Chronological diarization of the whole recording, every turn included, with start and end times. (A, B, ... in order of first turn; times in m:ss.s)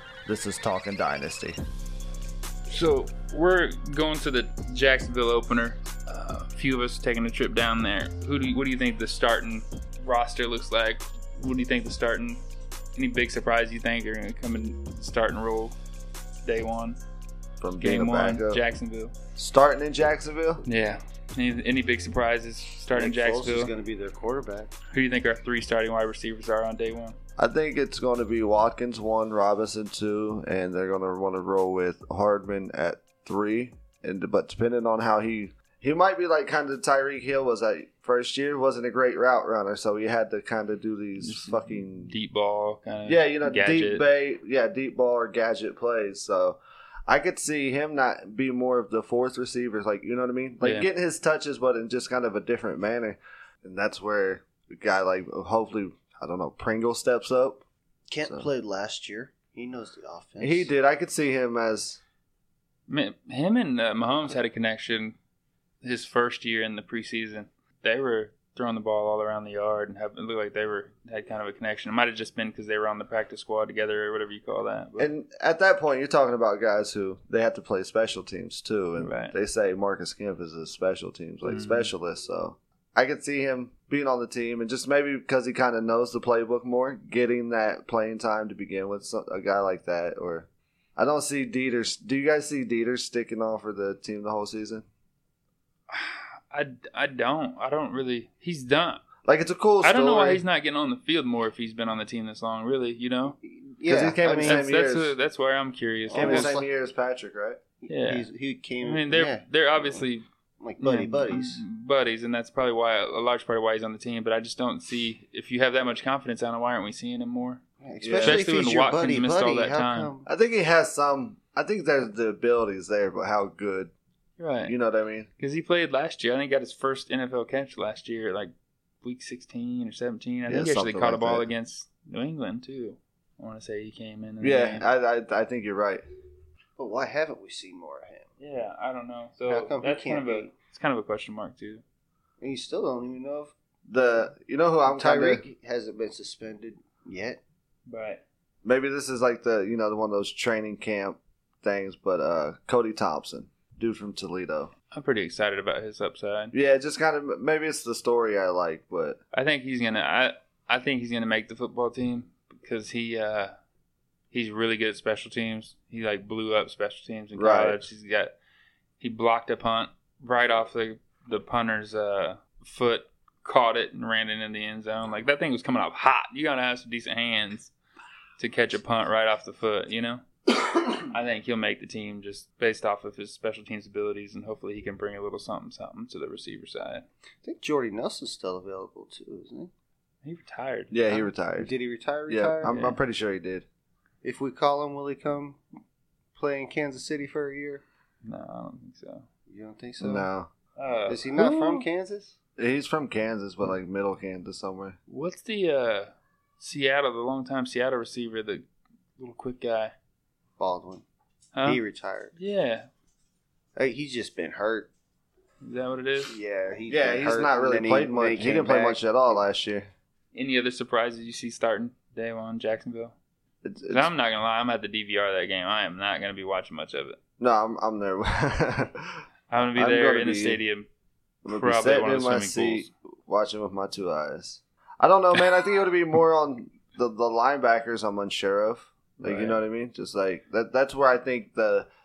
0:00.2-0:01.6 A
0:02.7-0:12.4 B
0:12.9-0:15.7 B
0:16.4-0:17.0 B
0:17.6-0:18.6 A
0:17.8-0:19.1 B
0:19.4-0:20.6 A
0:20.6-0:23.7 B
0:22.9-0:24.7 C
0:24.9-0:27.2 B
0:27.4-0:42.1 A
0:41.2-0:44.0 B
0:43.0-0:57.6 A
0:50.6-0:50.9 B
0:58.1-1:00.7 C
1:00.4-1:02.0 A
1:02.9-1:05.2 B
1:05.8-1:15.1 B
1:15.0-1:34.8 A
1:19.0-1:19.3 B
1:21.4-1:21.9 B
1:35.9-1:39.0 B
1:39.2-1:40.4 A
1:39.8-1:43.4 B
1:43.4-1:44.6 C
1:43.8-1:45.1 A
1:44.2-1:46.5 B
1:46.1-1:46.7 C
1:46.1-1:47.6 A
1:47.8-1:50.0 C
1:47.9-1:48.3 B
1:48.8-1:50.2 B
1:50.6-1:51.6 C
1:50.8-1:57.6 B
1:57.8-2:00.3 C
1:58.0-1:58.4 A
1:58.2-2:00.1 B
2:00.2-2:03.9 A
2:04.4-2:04.7 B
2:04.6-2:05.3 A
2:05.4-2:14.8 B
2:10.5-2:11.5 A
2:14.4-2:16.0 A
2:16.8-2:18.3 C
2:18.4-2:21.8 B
2:19.5-2:20.5 C
2:22.4-2:23.5 C
2:23.9-2:25.4 A
2:24.8-2:27.4 C
2:27.9-2:28.2 B
2:28.6-2:34.7 A
2:34.9-2:36.5 B
2:36.5-2:39.2 A
2:39.3-2:43.5 B
2:44.3-2:48.3 B
2:47.3-2:47.8 A
2:49.0-2:57.7 B
2:58.4-3:00.2 B
3:00.9-3:07.0 B
3:07.4-3:09.7 C
3:10.2-3:11.3 B
3:10.9-3:11.7 A
3:11.6-3:12.8 C
3:12.3-3:13.6 A
3:12.7-3:13.0 B
3:14.2-3:15.6 C
3:16.4-3:17.8 C
3:18.2-3:19.2 B
3:19.5-3:20.3 C
3:20.0-3:20.5 A
3:20.8-3:21.8 B
3:21.1-3:22.3 C
3:22.6-3:25.0 A
3:25.1-3:28.6 B
3:29.2-3:29.9 B
3:30.6-3:31.0 C
3:31.5-3:31.8 B
3:31.6-3:32.3 C
3:32.3-3:32.9 B
3:33.8-3:34.9 C
3:35.6-3:36.4 B
3:36.2-3:39.0 C
3:36.9-3:39.9 A
3:40.3-3:43.1 B
3:43.6-3:44.1 A
3:43.9-3:47.2 B
3:47.4-3:49.2 A
3:49.5-3:50.9 B
3:49.8-3:50.6 A
3:51.4-4:01.9 A
3:51.5-3:52.9 B
3:59.2-3:59.6 B